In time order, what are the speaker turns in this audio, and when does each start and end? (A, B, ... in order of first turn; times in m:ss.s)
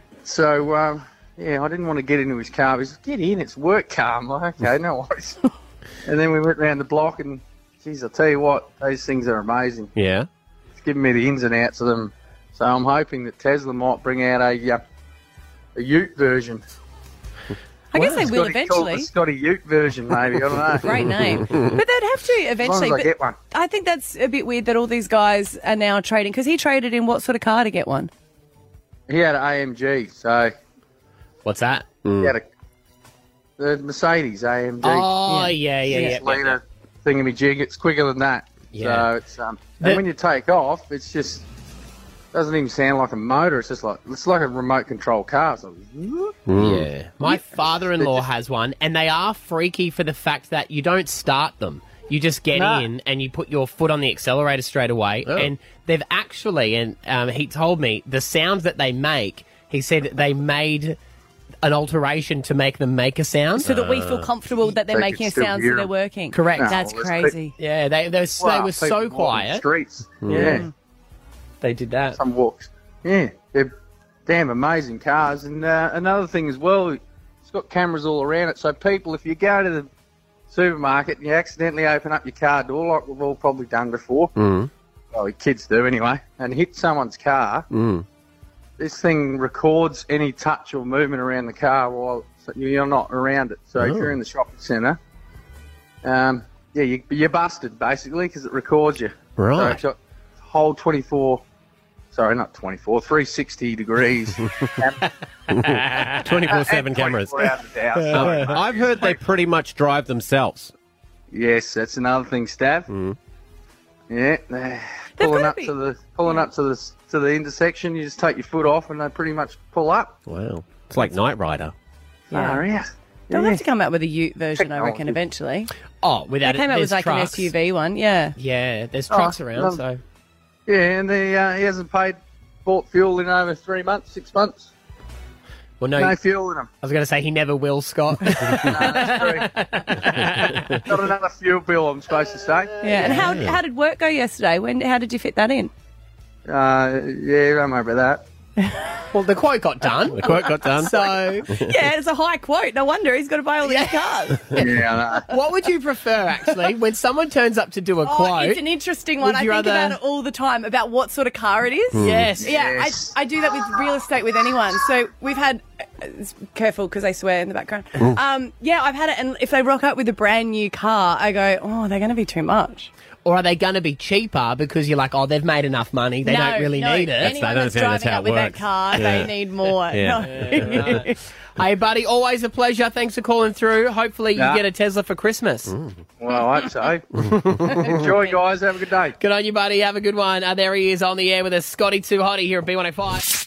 0:00.2-0:05.4 A
0:06.0-0:09.9 A
0:09.9-0:10.3 B
0:10.8-0:14.8 A
0:15.7-0:16.6 A
0:17.9-0:19.1 C
0:17.9-0:20.9 A
0:20.8-0:28.1 C
0:21.4-0:21.7 B
0:22.6-0:23.4 A
0:29.1-0:30.5 A
0:31.4-0:31.9 D
0:32.0-0:32.3 B
0:33.6-0:35.2 A
0:34.8-0:36.6 D
0:35.3-0:36.2 C
0:35.9-0:41.4 A
0:38.7-0:39.1 D
0:42.3-0:46.3 A
0:46.5-0:47.1 B
0:46.5-1:01.0 D
0:47.3-0:48.2 A
0:52.5-0:52.8 A
1:01.6-1:03.7 D
1:03.6-1:07.5 C
1:03.6-1:04.3 B
1:04.6-1:05.9 A
1:06.3-1:06.8 D
1:06.6-1:07.4 A
1:07.6-1:09.6 D
1:08.4-1:10.7 A
1:10.2-1:10.6 B
1:10.2-1:10.6 D
1:10.3-1:10.7 C
1:11.6-1:12.2 D
1:12.1-1:13.7 A
1:14.2-1:19.9 A
1:20.5-1:24.3 A
1:24.4-1:24.7 B
1:25.1-1:27.7 A
1:27.7-1:28.0 B
1:28.8-1:35.0 A
1:33.8-1:34.1 B
1:36.0-1:41.4 A
1:39.4-1:39.8 B
1:42.1-1:45.0 A
1:45.5-1:50.7 B
1:45.6-1:46.6 D
1:46.5-1:49.2 A
1:48.0-1:48.5 D
1:51.3-1:52.9 A
1:52.9-1:53.2 B
1:54.1-2:00.1 A
1:55.2-1:55.7 C
2:00.3-2:01.7 B
2:02.3-2:03.6 A
2:02.3-2:02.6 C
2:03.3-2:05.7 C
2:04.6-2:05.2 A
2:06.0-2:07.5 D
2:06.4-2:08.3 C
2:08.4-2:10.0 D
2:09.1-2:09.8 A
2:10.7-2:14.7 A
2:15.8-2:16.2 D
2:16.0-2:16.7 A
2:16.8-2:20.9 D
2:18.6-2:19.6 A
2:20.1-2:20.8 B
2:20.8-2:23.1 A
2:22.8-2:25.7 C
2:23.0-2:23.2 D
2:23.0-2:23.6 B
2:26.4-2:28.2 A
2:28.6-2:29.0 C
2:29.1-2:31.5 D
2:30.0-2:34.8 C
2:30.1-2:30.9 B
2:33.6-2:38.6 D
2:34.6-2:35.3 A
2:38.0-2:52.9 C
2:39.2-2:40.0 D
2:41.9-2:42.4 B
2:42.0-2:42.5 D
2:42.4-2:43.1 A
2:53.2-2:57.4 D
2:56.2-3:01.2 C
2:57.2-2:59.3 B
2:59.9-3:01.0 B
3:00.3-3:01.0 D
3:01.6-3:05.7 D
3:04.3-3:04.6 A
3:05.7-3:06.0 B
3:06.2-3:07.0 A
3:07.2-3:08.0 B
3:07.4-3:07.9 D
3:07.8-3:08.3 C
3:07.9-3:09.2 A
3:09.2-3:13.2 D